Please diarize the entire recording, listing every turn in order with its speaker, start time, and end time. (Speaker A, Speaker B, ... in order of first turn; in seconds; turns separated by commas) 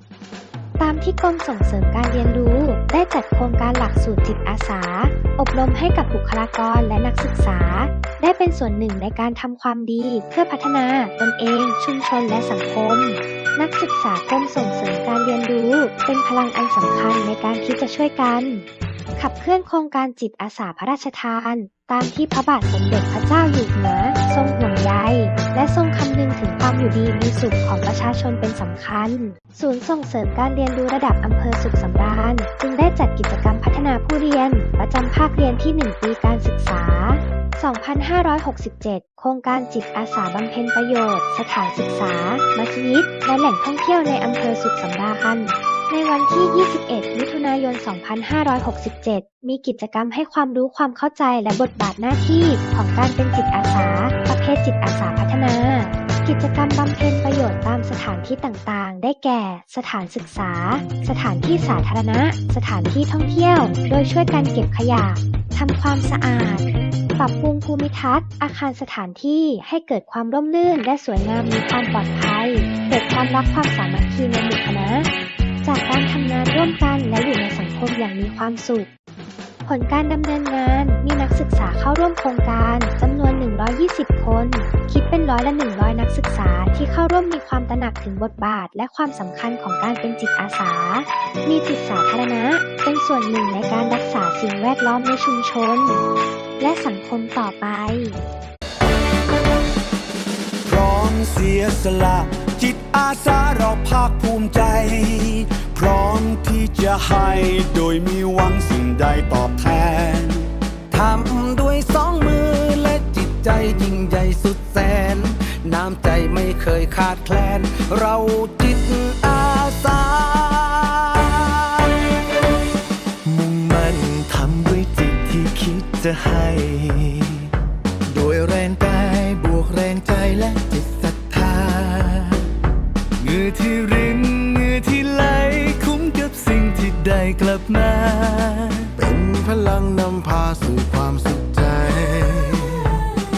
Speaker A: 0.8-18.7, Speaker A: 19.2-75.1, Speaker A: 75.6-78.9, Speaker A: 79.7-96.0, Speaker A: 96.6-98.2, Speaker B: 100.7-110.5, Speaker C: 110.9-121.9, Speaker D: 123.3-127.5, Speaker D: 128.1-132.5, Speaker E: 129.4-130.3, Speaker D: 133.2-138.9, Speaker E: 139.0-143.0